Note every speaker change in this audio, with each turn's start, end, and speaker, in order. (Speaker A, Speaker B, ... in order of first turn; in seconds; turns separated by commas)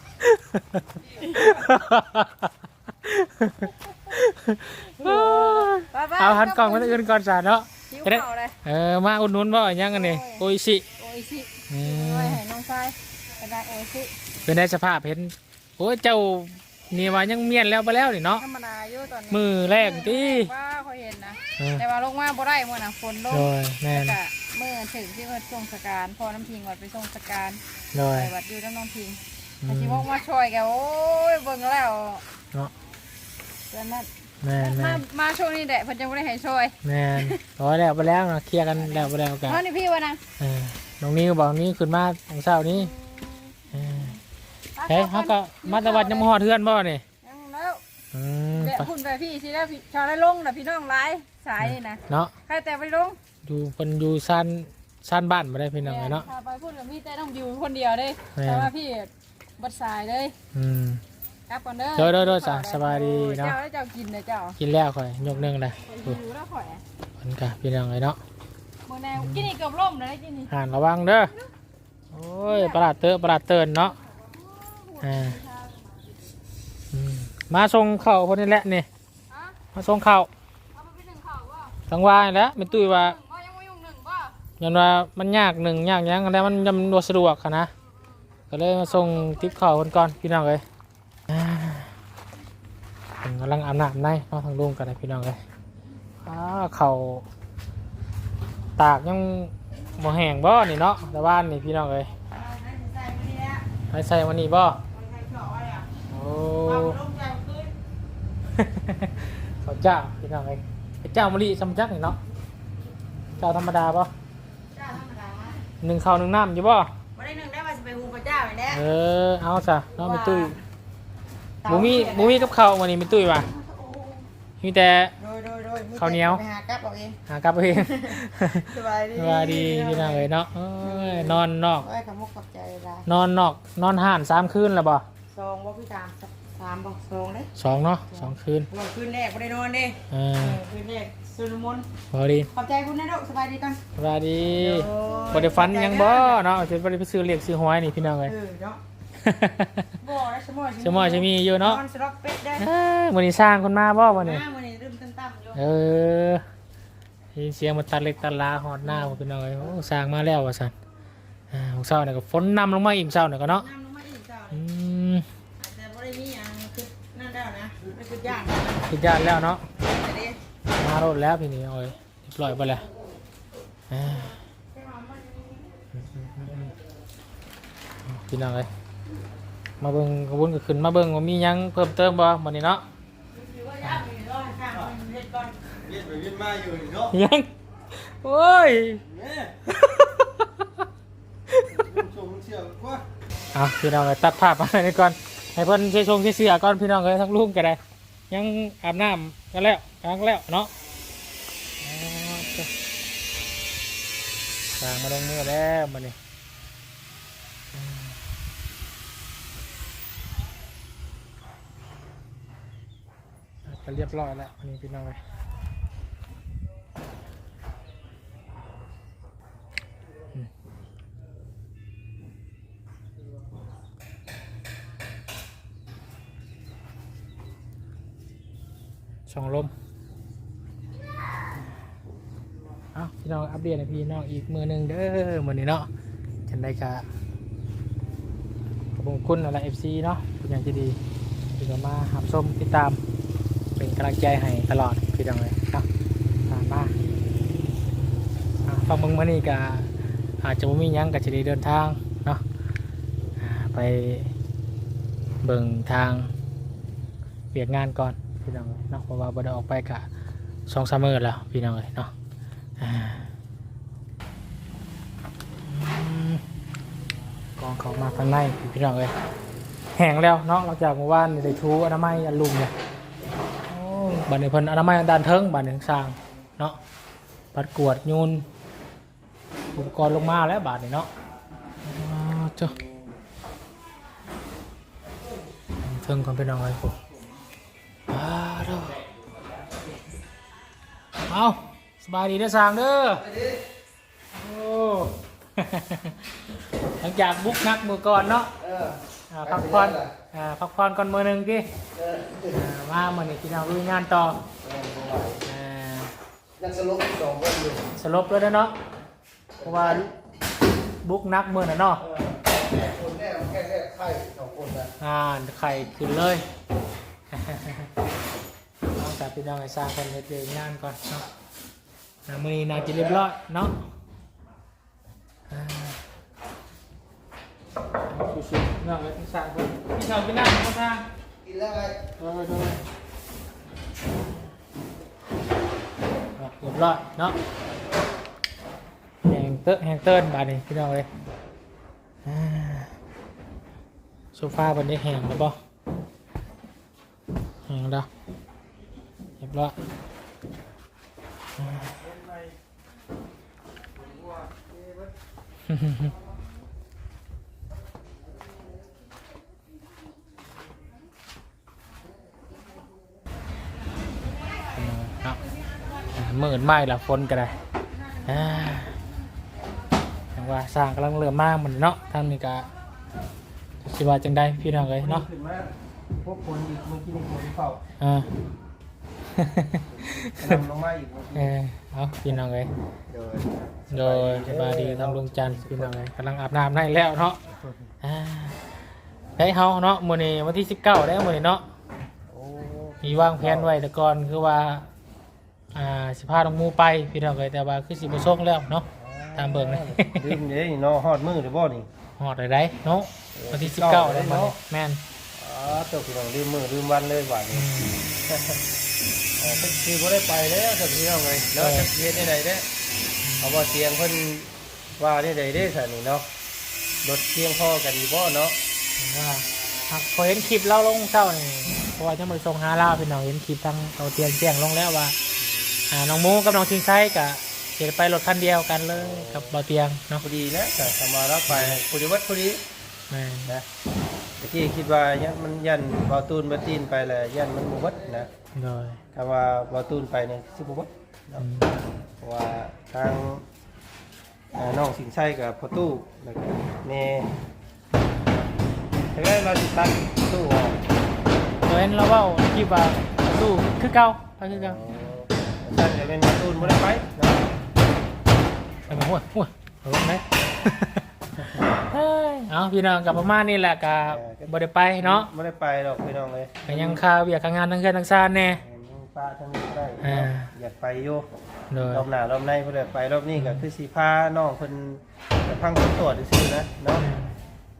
Speaker A: 0.2-10.8, Speaker B: 1.2-1.5, Speaker B: 5.0-7.0, Speaker B: 7.9-8.6, Speaker B: 9.8-10.4, Speaker B: 11.0-14.1, Speaker A: 11.7-12.4, Speaker A: 14.4-18.4, Speaker B: 18.4-27.6, Speaker A: 19.3-20.5, Speaker A: 21.6-21.8, Speaker A: 23.3-24.1, Speaker A: 27.9-28.3, Speaker B: 28.1-32.2, Speaker A: 29.6-30.1, Speaker B: 33.7-37.4, Speaker A: 34.4-35.0, Speaker A: 36.8-39.6, Speaker B: 38.8-40.2, Speaker A: 40.4-42.9, Speaker B: 42.7-43.5, Speaker A: 43.7-44.1, Speaker B: 44.8-46.3, Speaker A: 44.9-47.0, Speaker B: 47.2-47.8, Speaker A: 48.1-48.9, Speaker B: 48.5-53.2, Speaker A: 51.6-52.3, Speaker A: 53.4-56.3, Speaker B: 55.8-60.4, Speaker A: 58.3-58.7, Speaker A: 60.5-61.0, Speaker B: 61.5-64.6, Speaker A: 62.0-63.6, Speaker A: 64.6-66.2, Speaker B: 65.8-66.8, Speaker A: 67.2-68.2, Speaker B: 68.9-70.5, Speaker A: 69.2-69.5, Speaker A: 70.5-71.3, Speaker A: 72.1-74.0, Speaker B: 72.5-72.8, Speaker B: 73.9-76.1, Speaker A: 75.0-75.4, Speaker A: 76.9-78.9, Speaker B: 79.3-79.6, Speaker A: 79.7-80.3, Speaker B: 80.7-81.8, Speaker A: 81.9-83.2, Speaker B: 82.7-84.3, Speaker A: 84.6-87.7, Speaker B: 87.9-88.2, Speaker A: 88.5-90.6, Speaker B: 88.8-89.5, Speaker A: 91.3-91.9, Speaker A: 93.2-95.4, Speaker A: 96.2-97.2, Speaker A: 98.8-102.1, Speaker C: 102.2-103.6, Speaker A: 103.9-104.8, Speaker C: 104.9-105.9, Speaker A: 106.1-107.0, Speaker C: 106.6-107.7, Speaker A: 108.5-112.2, Speaker A: 113.4-114.1, Speaker C: 114.7-115.7, Speaker A: 115.8-116.9, Speaker C: 117.1-118.8, Speaker A: 118.7-120.6, Speaker C: 120.0-120.6, Speaker C: 121.6-122.5, Speaker A: 121.6-123.5, Speaker C: 123.3-124.3, Speaker A: 124.6-125.1, Speaker C: 125.2-127.2, Speaker A: 126.0-126.4, Speaker A: 127.3-131.9, Speaker C: 127.8-128.2, Speaker C: 128.7-130.3, Speaker C: 130.8-133.1, Speaker A: 133.1-135.1, Speaker C: 135.3-137.5, Speaker A: 137.6-138.7, Speaker C: 138.1-141.9, Speaker A: 140.1-140.6, Speaker A: 142.1-142.5, Speaker C: 142.5-143.8, Speaker A: 143.9-148.3, Speaker C: 144.6-146.4, Speaker C: 148.2-148.8, Speaker A: 149.2-149.9, Speaker C: 150.0-152.7, Speaker A: 150.8-151.8, Speaker A: 152.6-154.4, Speaker C: 154.2-155.6, Speaker A: 155.5-156.4, Speaker A: 157.3-160.7, Speaker C: 158.9-159.2, Speaker A: 161.5-163.7, Speaker C: 163.5-164.6, Speaker A: 164.5-165.2, Speaker C: 165.6-168.8, Speaker A: 168.7-169.7, Speaker C: 169.8-170.4, Speaker A: 170.7-172.8, Speaker A: 173.9-174.4, Speaker C: 174.7-175.7, Speaker A: 175.9-176.7, Speaker A: 178.1-178.7, Speaker A: 179.8-182.8, Speaker C: 183.3-185.6, Speaker D: 185.8-187.1, Speaker A: 187.1-189.1, Speaker D: 189.1-189.5, Speaker A: 189.7-190.8, Speaker A: 191.5-192.0, Speaker D: 191.7-193.0, Speaker A: 193.5-200.7, Speaker A: 201.8-202.7, Speaker A: 204.8-206.2, Speaker A: 207.7-208.2, Speaker A: 213.6-215.2, Speaker A: 229.3-229.7, Speaker A: 232.9-235.9, Speaker A: 236.5-237.0, Speaker A: 238.9-241.0, Speaker A: 241.6-243.0, Speaker A: 243.8-245.9, Speaker A: 246.5-246.9, Speaker A: 248.6-249.9, Speaker A: 250.4-252.4, Speaker A: 253.4-254.3, Speaker A: 255.4-256.3, Speaker A: 257.5-260.1, Speaker A: 260.7-262.1, Speaker A: 262.8-263.3, Speaker A: 265.6-266.4, Speaker A: 267.6-269.1, Speaker A: 269.9-272.7, Speaker A: 273.7-276.8, Speaker A: 277.5-278.5, Speaker A: 279.7-281.1, Speaker A: 281.8-282.7, Speaker A: 285.8-287.0, Speaker A: 288.1-289.0, Speaker A: 291.2-293.4, Speaker A: 294.3-296.3, Speaker A: 297.0-298.5, Speaker A: 299.3-301.7, Speaker A: 302.5-304.4, Speaker D: 304.6-305.4, Speaker A: 305.4-306.1, Speaker D: 306.6-307.8, Speaker A: 307.9-308.8, Speaker A: 309.6-310.1, Speaker A: 311.0-312.0, Speaker D: 312.9-314.9, Speaker A: 315.0-316.4, Speaker A: 317.3-317.9, Speaker A: 318.9-321.3, Speaker A: 322.2-323.8, Speaker A: 325.5-326.0, Speaker A: 328.1-331.1, Speaker A: 332.1-332.8, Speaker A: 336.4-337.4, Speaker A: 339.2-341.1, Speaker A: 342.2-342.9, Speaker A: 344.3-345.6, Speaker A: 347.6-348.1, Speaker A: 349.4-349.7, Speaker A: 351.6-351.9, Speaker A: 355.7-356.1, Speaker A: 364.7-365.4, Speaker A: 366.1-367.5, Speaker A: 368.2-369.0, Speaker A: 370.3-372.7, Speaker A: 373.8-375.3, Speaker D: 374.8-377.8, Speaker A: 378.0-378.3, Speaker A: 379.3-380.6, Speaker D: 380.4-381.6, Speaker A: 381.3-382.7, Speaker D: 383.1-386.0, Speaker A: 383.9-387.4, Speaker A: 388.0-388.6, Speaker A: 389.4-391.6, Speaker D: 392.3-393.7, Speaker A: 393.0-394.9, Speaker A: 395.7-400.4, Speaker D: 398.9-401.9, Speaker A: 402.2-405.0, Speaker D: 403.3-404.6, Speaker D: 405.3-407.7, Speaker A: 407.5-408.0, Speaker D: 408.3-408.6, Speaker D: 409.4-412.7, Speaker A: 411.6-411.9, Speaker A: 413.2-413.5, Speaker D: 413.4-416.3, Speaker D: 417.0-418.6, Speaker A: 419.0-425.1, Speaker D: 425.4-425.9, Speaker A: 425.9-430.2, Speaker D: 429.0-429.6, Speaker D: 430.2-432.6, Speaker A: 431.5-431.8, Speaker A: 433.1-433.6, Speaker D: 434.4-438.3, Speaker A: 438.5-439.0, Speaker D: 439.1-441.5, Speaker A: 441.4-441.8, Speaker D: 442.2-443.4, Speaker D: 444.5-447.3, Speaker D: 449.1-450.8, Speaker A: 451.6-454.8, Speaker D: 454.5-457.4, Speaker A: 458.9-465.3, Speaker D: 464.1-467.0, Speaker A: 466.6-468.6, Speaker D: 468.6-471.2, Speaker A: 470.0-470.5, Speaker A: 471.7-472.1, Speaker D: 471.8-477.1, Speaker A: 473.3-473.7, Speaker A: 476.9-477.4